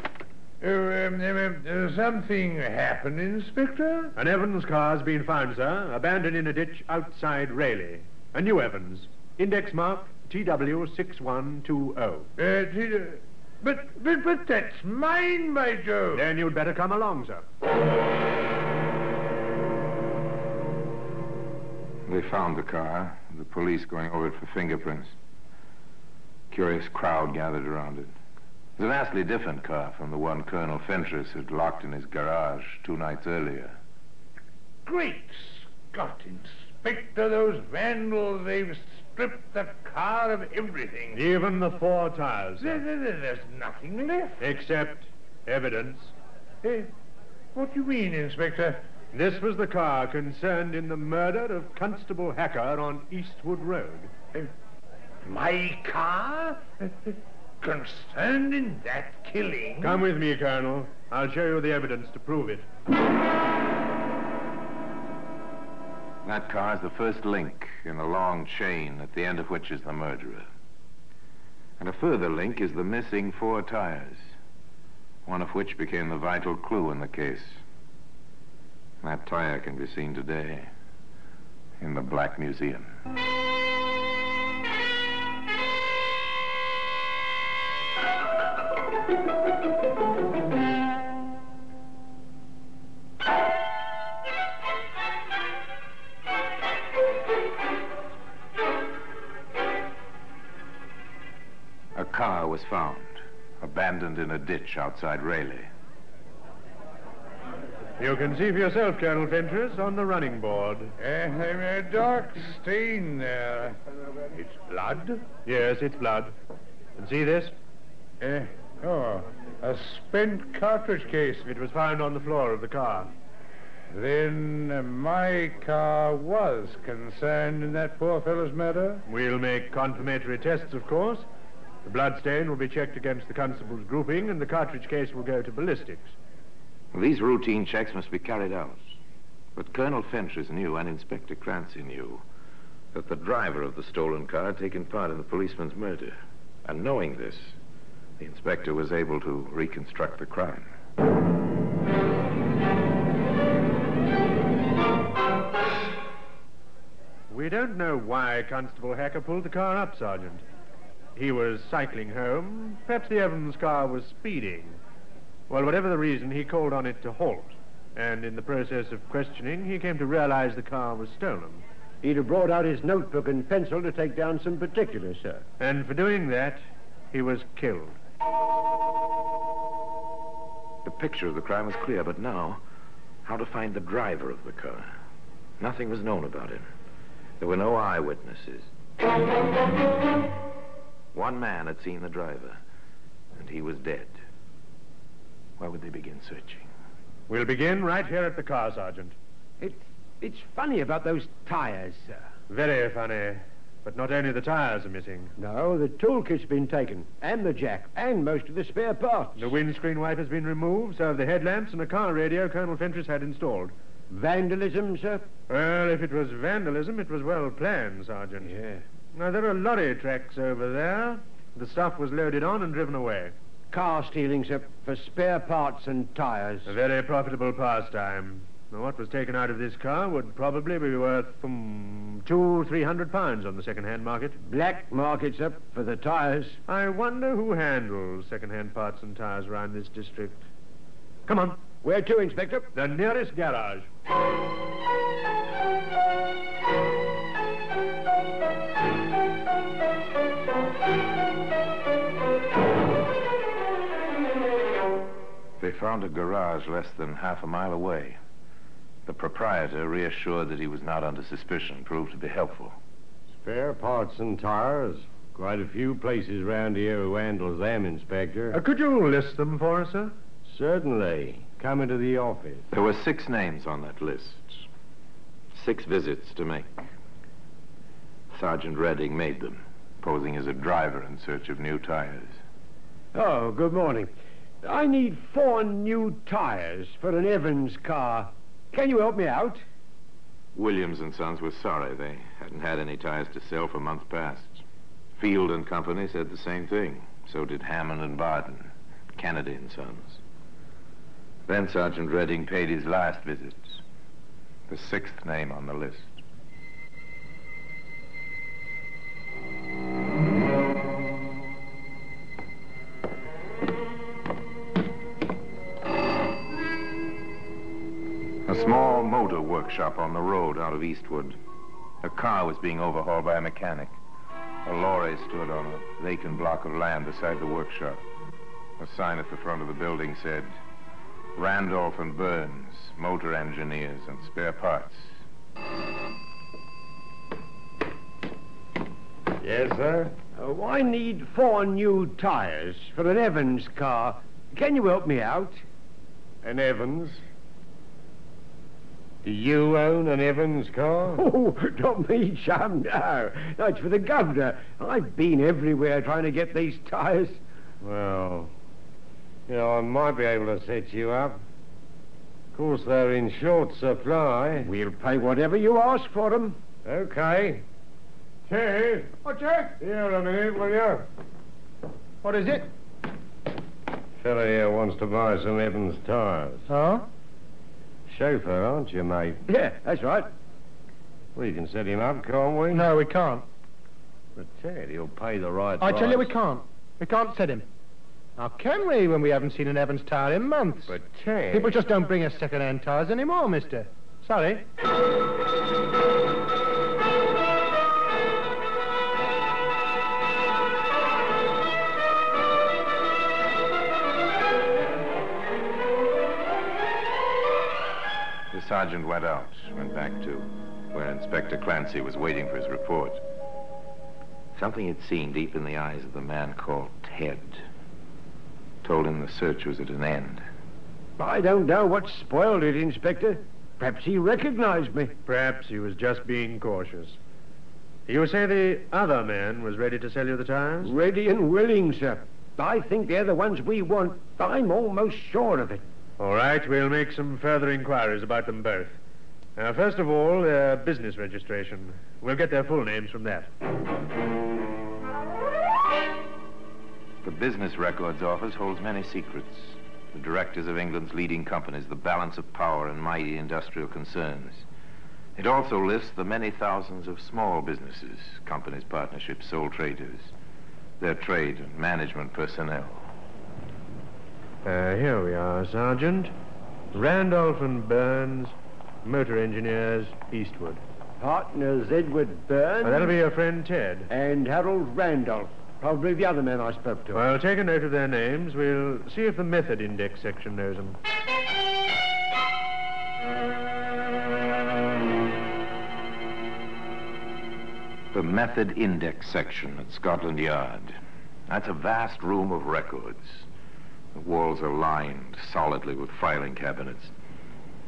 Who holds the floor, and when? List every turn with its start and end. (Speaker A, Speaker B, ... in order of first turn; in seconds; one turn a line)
Speaker A: 0.6-4.1
Speaker B: 4.2-12.3
Speaker A: 12.4-16.3
Speaker B: 16.1-17.5
Speaker C: 22.1-25.1
Speaker C: 26.5-28.1
Speaker C: 28.8-33.8
Speaker A: 34.9-41.2
Speaker B: 41.1-42.8
Speaker A: 42.6-44.4
Speaker B: 44.4-46.1
Speaker A: 46.6-46.9
Speaker A: 47.5-48.8
Speaker B: 49.1-54.1
Speaker A: 55.2-60.0
Speaker B: 59.8-62.7
Speaker C: 66.2-70.5
Speaker C: 71.8-74.2
Speaker C: 75.3-77.6
Speaker C: 79.0-80.7
Speaker C: 81.8-82.9
Speaker C: 102.0-105.7
Speaker B: 108.0-110.9
Speaker A: 111.0-113.8
Speaker A: 114.3-115.2
Speaker B: 115.5-116.3
Speaker B: 117.0-117.5
Speaker A: 118.2-121.5
Speaker B: 121.5-123.1
Speaker A: 123.9-129.0
Speaker B: 129.1-131.3
Speaker B: 131.8-136.1
Speaker C: 136.9-138.8
Speaker C: 139.6-142.2
Speaker C: 142.9-147.6
Speaker C: 148.2-150.7
Speaker B: 157.3-160.4
Speaker B: 161.2-164.8
Speaker B: 165.5-171.6
Speaker D: 172.0-175.4
Speaker B: 175.6-176.6
Speaker B: 177.1-177.9
Speaker C: 180.8-182.6
Speaker C: 183.2-184.9
Speaker C: 185.6-186.7
Speaker C: 187.4-188.7
Speaker C: 191.1-192.6
Speaker C: 193.4-194.2
Speaker C: 195.6-196.7
Speaker B: 197.3-199.2
Speaker D: 199.6-202.3
Speaker B: 202.5-205.3
Speaker D: 205.4-209.5
Speaker B: 209.4-213.7
Speaker D: 214.1-215.2
Speaker B: 215.5-218.6
Speaker D: 218.4-218.8
Speaker B: 219.1-223.3
Speaker D: 223.7-226.7
Speaker B: 226.7-234.4
Speaker D: 234.5-236.6
Speaker B: 236.7-240.5
Speaker B: 241.3-241.6
Speaker D: 241.8-242.7
Speaker B: 242.7-243.9
Speaker C: 255.6-258.2
Speaker C: 259.1-262.8
Speaker E: 263.4-268.6
Speaker B: 268.5-270.1
Speaker E: 270.4-272.7
Speaker C: 272.7-274.7
Speaker C: 275.5-276.9
Speaker C: 278.3-282.4
Speaker D: 283.1-284.1
Speaker D: 284.6-289.6
Speaker C: 290.6-294.6
Speaker C: 295.2-300.2
Speaker C: 301.5-303.8
Speaker C: 304.7-306.2
Speaker C: 318.5-321.4
Speaker C: 322.0-324.0
Speaker C: 324.6-328.0
Speaker C: 328.8-330.5
Speaker C: 331.4-335.1
Speaker E: 339.4-340.1
Speaker D: 340.4-345.6
Speaker E: 346.4-347.2
Speaker E: 349.2-351.2
Speaker D: 351.1-357.4
Speaker E: 357.8-358.5
Speaker E: 359.5-361.4
Speaker E: 362.5-364.7
Speaker D: 364.6-366.6
Speaker E: 366.9-367.6
Speaker E: 368.5-371.1
Speaker F: 372.2-372.7
Speaker E: 374.2-376.7
Speaker F: 376.7-377.1
Speaker E: 378.1-379.4
Speaker D: 379.5-380.3
Speaker E: 381.4-382.9
Speaker F: 382.7-383.4
Speaker E: 384.4-386.3
Speaker F: 385.8-387.7
Speaker F: 388.4-390.9
Speaker E: 390.9-391.8
Speaker F: 391.5-394.7
Speaker C: 408.5-413.2
Speaker C: 414.6-417.6
Speaker C: 418.8-420.4
Speaker D: 421.2-425.1
Speaker B: 425.3-427.2
Speaker B: 428.1-430.9
Speaker D: 430.8-435.8
Speaker B: 436.2-439.0
Speaker B: 439.6-443.5
Speaker C: 447.2-454.7
Speaker C: 455.4-460.3
Speaker C: 461.0-463.1
Speaker B: 464.6-466.3
Speaker B: 466.9-468.5
Speaker B: 469.1-470.8
Speaker D: 471.2-473.2
Speaker B: 472.8-474.1
Speaker D: 474.1-477.2
Speaker B: 477.1-481.0
Speaker C: 488.1-491.0
Speaker C: 491.5-493.4
Speaker C: 494.1-497.1